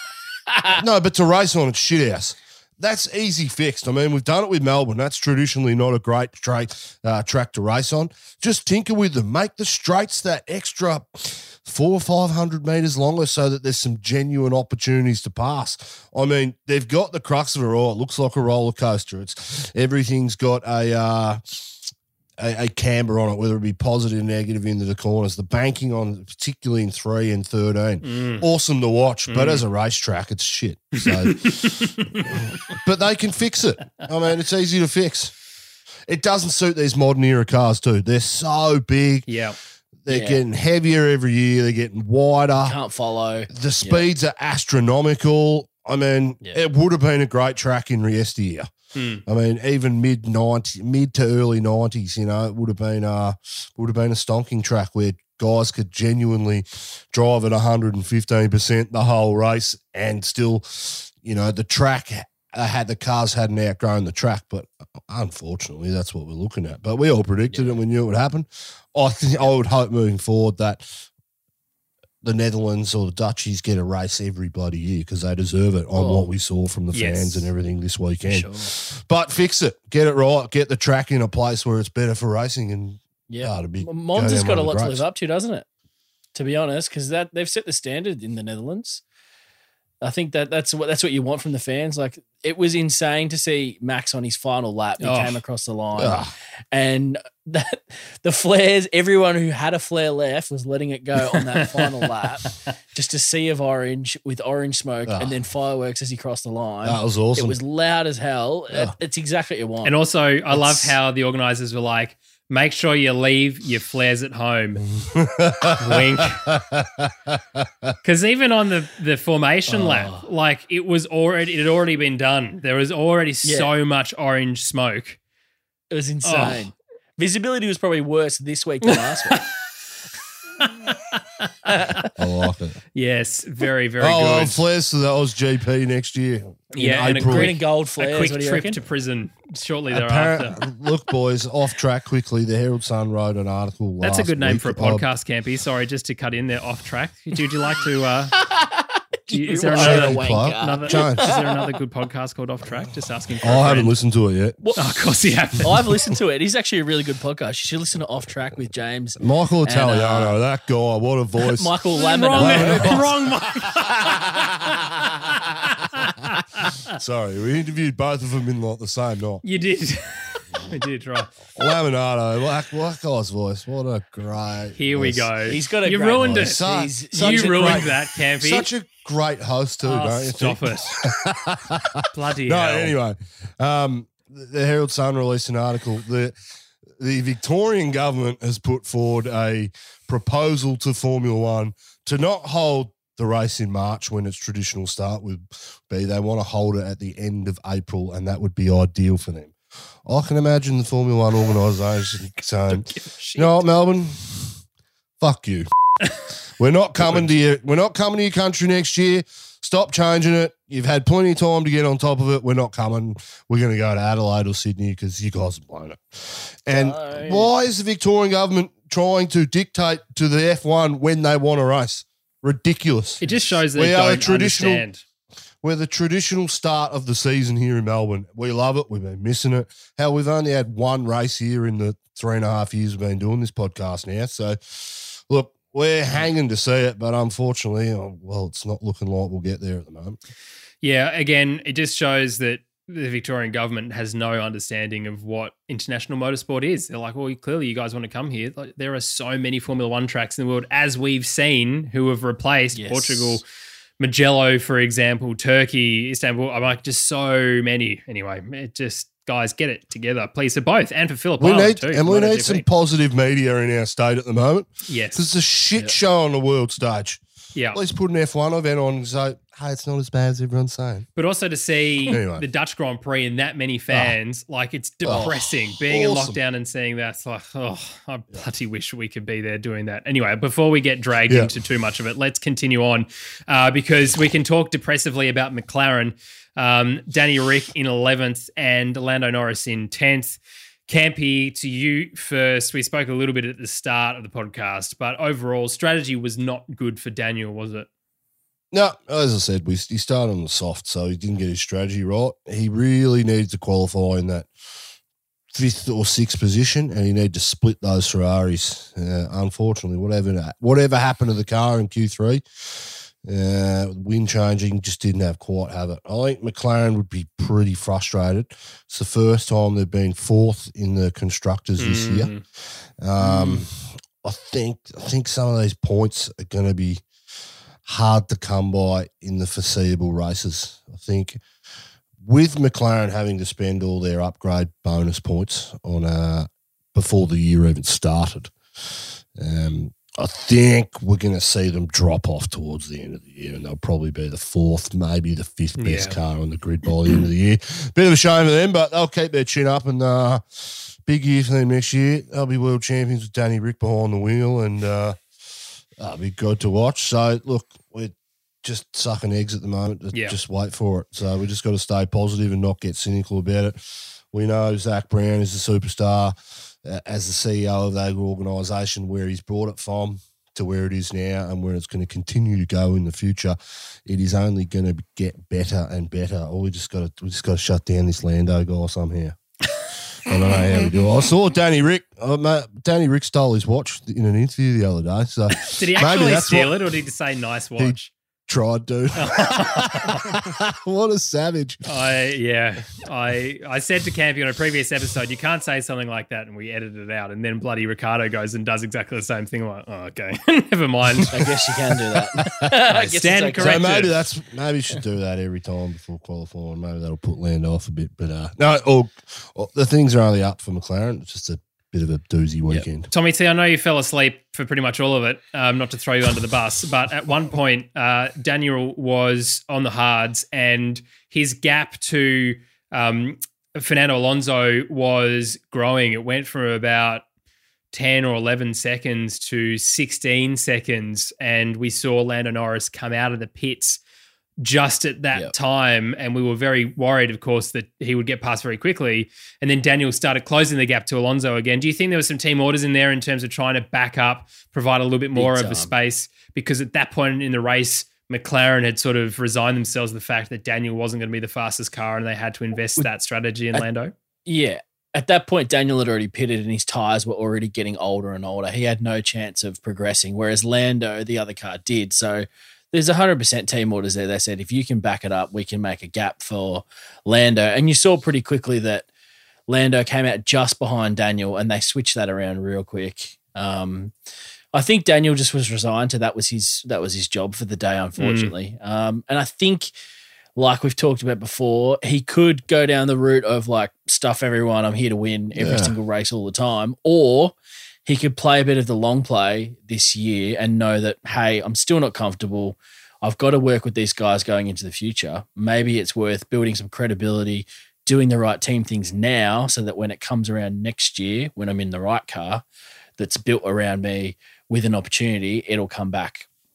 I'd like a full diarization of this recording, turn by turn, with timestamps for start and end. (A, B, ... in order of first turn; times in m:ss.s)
0:00.5-0:00.8 A
0:00.7-0:21.7 B
0:22.4-0:35.3 B
0:28.0-0:28.4 C
0:29.3-0:29.6 C
0:31.2-0:32.3 C
0:36.1-0:39.3 B
0:39.3-0:39.6 C
0:40.0-0:42.8 B
0:40.1-0:40.4 A
0:42.6-0:44.0 A
0:43.5-0:48.7 B
0:48.9-0:49.2 C
0:49.2-1:11.1 B
1:07.5-1:07.8 A
1:12.2-1:25.0 B
1:15.9-1:16.3 A
1:16.9-1:17.5 C
1:18.3-1:18.7 A
1:23.3-1:25.6 A
1:26.3-1:29.0 A
1:30.0-1:49.9 A
1:35.0-1:35.4 C
1:36.0-1:36.3 B
1:41.3-1:42.7 C
1:45.1-1:45.3 B
1:46.8-1:47.6 B
1:49.8-1:54.8 C
1:50.5-1:51.0 A
1:54.9-1:57.9 B
1:55.8-1:56.4 C
1:58.0-2:05.2 C
1:59.7-2:00.2 A
2:03.4-2:03.7 A
2:05.9-2:09.5 A
2:06.2-2:06.7 C
2:08.9-2:09.4 C
2:10.6-2:12.1 C
2:11.7-2:12.1 A
2:12.2-2:12.8 B
2:12.9-2:14.6 C
2:14.0-2:17.5 B
2:16.7-2:18.8 A
2:16.7-2:20.6 C
2:19.9-2:25.0 B
2:24.0-2:28.4 C
2:28.4-2:31.7 A
2:29.3-2:33.9 C
2:29.7-2:31.3 B
2:33.4-2:34.6 B
2:34.6-2:34.9 A
2:34.8-2:35.9 C
2:35.6-2:40.4 A
2:39.2-2:41.7 B
2:41.4-2:43.1 A
2:41.9-2:44.8 C
2:42.4-2:43.3 B
2:44.0-2:44.7 B
2:45.6-2:46.6 C
2:47.0-2:49.4 B
2:49.4-2:51.3 C
2:51.5-2:55.3 B
2:54.8-2:56.6 C
2:55.5-2:57.9 A
2:56.2-3:06.3 B
2:57.1-2:58.6 C
2:59.8-3:01.0 C
3:02.1-3:02.9 C
3:07.0-3:19.5 B
3:20.0-3:24.6 B
3:22.7-3:23.6 C
3:25.2-3:25.7 B
3:26.6-3:43.2 B
3:36.7-3:37.5 A
3:43.2-3:45.0 C
3:43.7-3:44.8 B
3:45.6-4:00.2 B
4:00.8-4:13.4 C
4:12.7-4:13.4 A
4:14.0-4:22.6 C
4:21.4-4:27.2 B
4:24.9-4:25.3 C
4:27.7-4:31.1 B
4:31.2-4:57.9 C
4:32.1-4:32.4 B
4:33.9-4:34.1 B
4:35.0-4:36.4 B
4:58.7-5:04.5 B
5:05.5-5:22.3 B
5:21.8-5:22.4 C
5:23.0-5:27.0 B
5:23.2-5:23.6 A
5:27.8-5:31.4 B
5:32.2-5:38.5 B
5:39.3-5:55.2 B
5:45.8-5:46.2 C
5:56.0-6:19.4 B
6:00.1-6:00.4 C
6:20.2-6:26.9 B
6:25.6-6:28.1 C
6:27.8-6:31.8 B
6:29.2-6:30.3 C
6:31.8-6:41.3 C
6:41.3-6:43.9 A
6:42.4-6:42.7 B
6:42.6-6:44.1 C
6:43.6-6:53.1 B
6:53.1-7:07.2 C
7:07.9-7:14.0 C
7:14.6-7:34.1 C
7:25.4-7:25.9 A
7:34.4-7:49.1 A
7:49.7-7:54.1 A
7:54.7-7:59.9 A
7:58.2-7:58.5 C
8:00.6-8:07.5 A
8:05.5-8:05.9 B
8:08.0-8:22.6 A
8:23.2-8:26.5 A